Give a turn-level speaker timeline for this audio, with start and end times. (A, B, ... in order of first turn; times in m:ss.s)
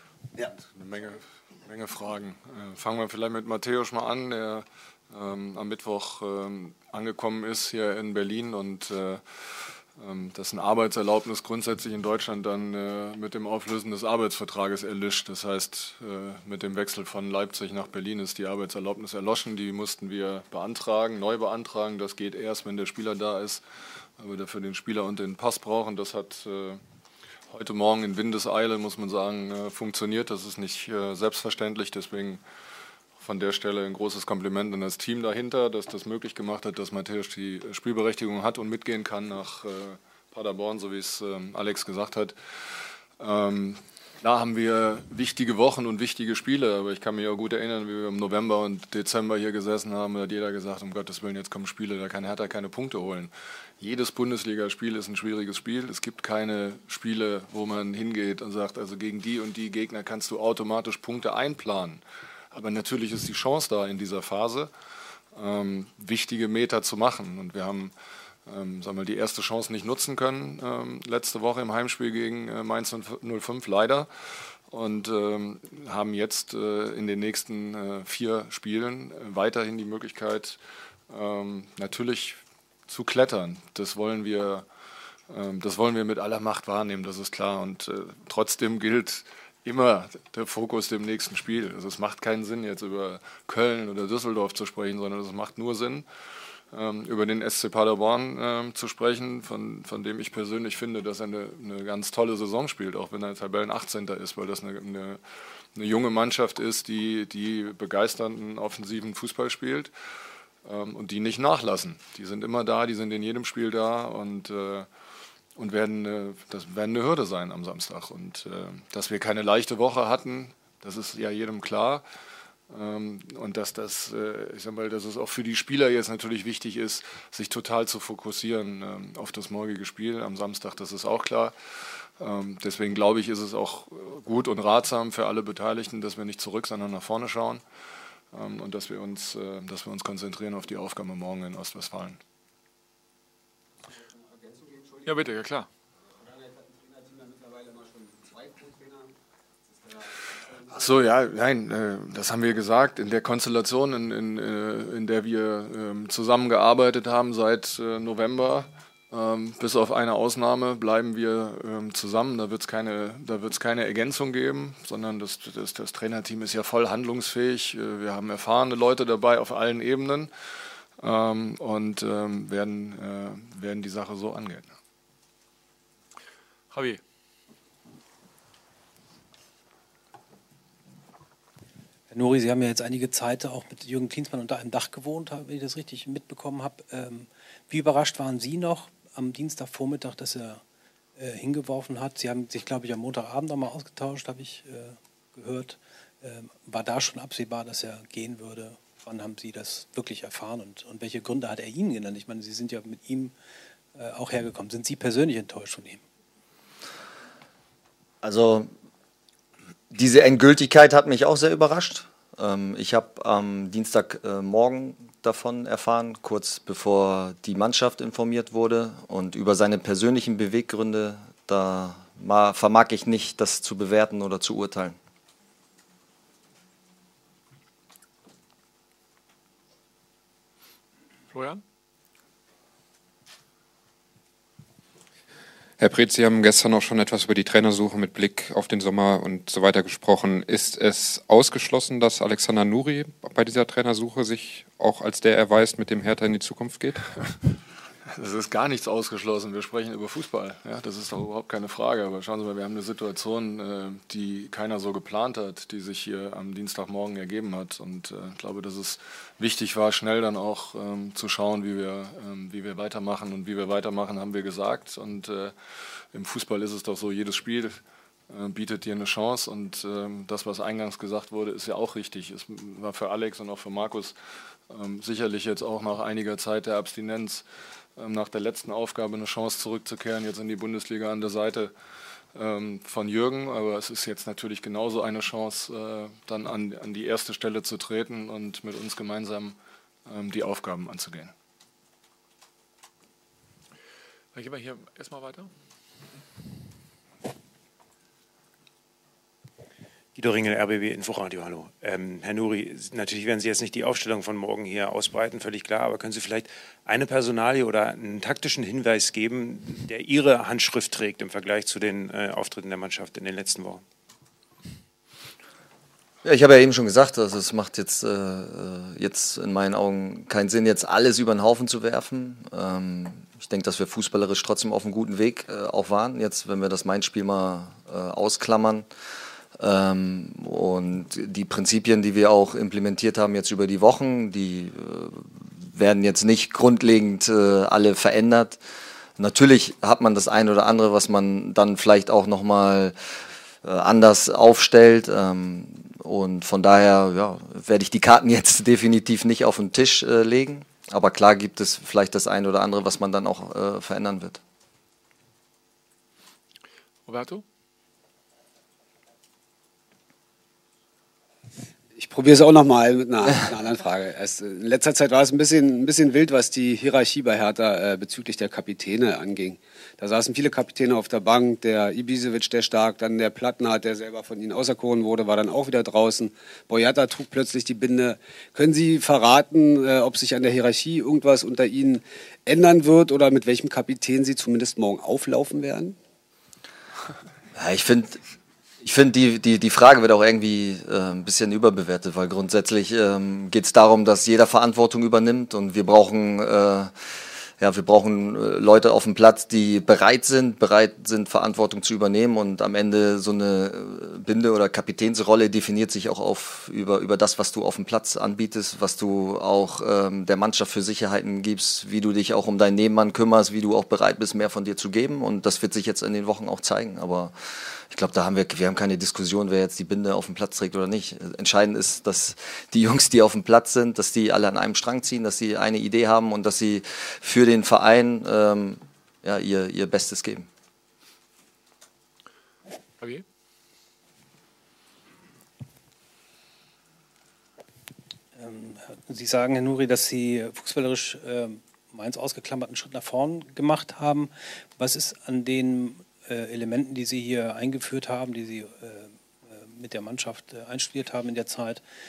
0:00.6-0:23.6 A
0:24.2-0:26.8 A
0:27.5-0:32.4 A
0:33.2-0:42.4 A
0:43.2-1:02.0 A
1:02.5-1:04.7 A
1:05.3-1:07.9 A
1:08.5-1:14.1 A
1:14.7-1:20.6 A
1:21.1-1:24.7 A
1:25.3-1:36.1 A
1:36.7-1:45.2 A
1:45.8-1:49.9 A
1:50.6-1:54.9 A
1:55.6-2:02.0 A
2:02.7-2:11.6 A
2:12.2-2:17.6 A
2:18.3-2:22.2 A
2:25.0-2:25.7 B
2:26.5-2:29.1 C
2:30.7-2:50.3 A
2:51.0-2:54.7 A
2:56.7-2:57.0 B
3:02.1-3:10.6 D
3:11.2-3:23.3 D
3:24.0-3:26.0 D
3:28.2-3:28.7 E
3:29.9-3:45.0 E
3:51.3-3:51.6 B
3:55.8-4:07.0 F
4:08.1-4:25.5 A
4:26.1-4:34.2 A
4:34.7-4:37.5 A
4:38.0-4:41.7 A
4:42.4-4:51.3 A
4:54.3-4:55.5 B
5:00.2-5:13.8 G
5:16.2-5:28.9 E
5:29.6-5:38.6 E
5:39.2-5:43.0 E
5:43.6-5:54.4 E
5:57.1-5:57.4 B
6:02.0-6:26.0 C
6:27.6-6:28.2 E
6:28.8-6:36.9 E
6:37.6-6:57.3 E
6:57.9-7:10.5 E
7:18.4-7:31.8 D